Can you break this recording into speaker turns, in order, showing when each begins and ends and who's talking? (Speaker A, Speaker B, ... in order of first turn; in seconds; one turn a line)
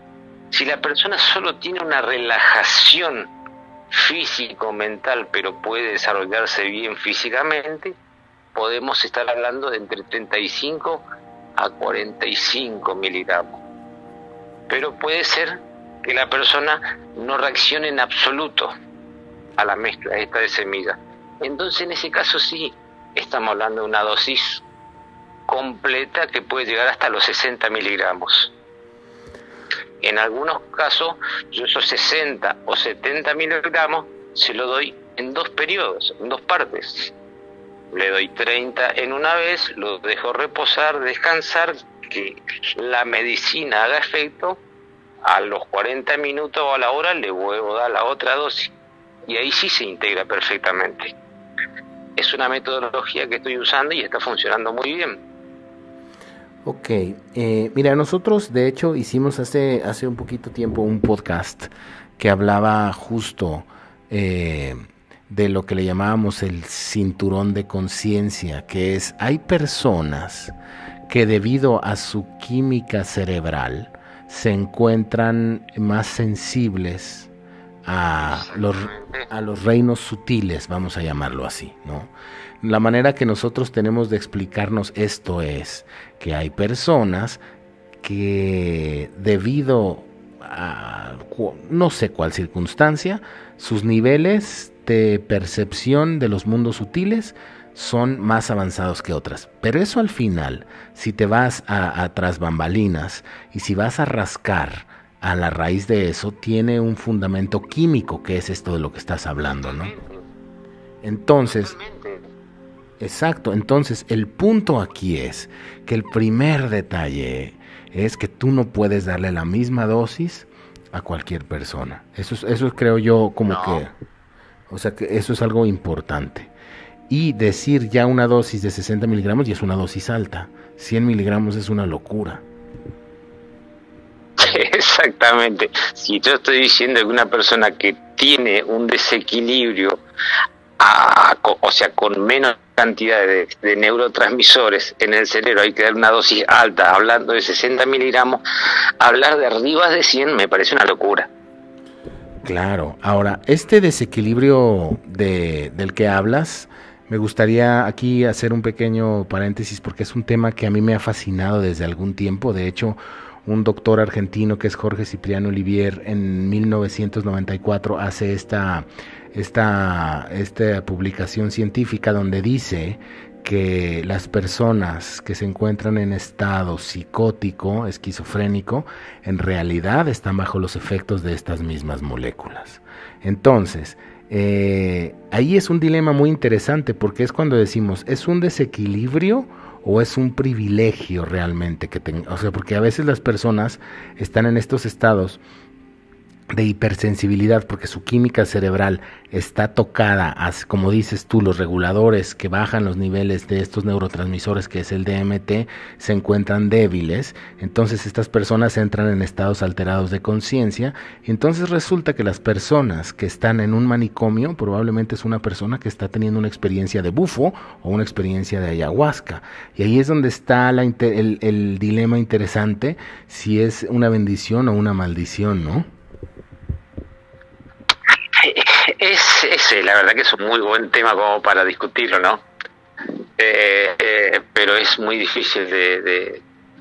Speaker A: 0.5-3.3
Speaker A: 3.9-8.0
Speaker A: 8.5-11.0
Speaker A: 11.6-13.6
Speaker A: 14.7-18.7
Speaker A: 19.6-24.6
Speaker A: 25.5-28.5
Speaker A: 30.0-37.1
Speaker A: 37.9-44.6
Speaker A: 45.2-48.7
Speaker A: 49.3-51.1
Speaker A: 52.2-55.2
Speaker B: 56.6-70.5
Speaker B: 71.1-77.3
Speaker B: 77.8-87.4
Speaker A: 78.2-79.3
Speaker B: 88.0-109.9
Speaker A: 109.6-110.2
Speaker B: 111.0-111.7
Speaker A: 111.4-112.2
Speaker B: 113.0-123.9
Speaker A: 123.5-123.8
Speaker B: 124.7-126.5
Speaker B: 127.1-132.4
Speaker A: 134.4-140.0
Speaker A: 140.8-148.4
Speaker A: 149.0-151.3
Speaker B: 152.4-195.4
Speaker B: 196.5-225.9
Speaker A: 228.3-232.4
Speaker A: 233.4-236.4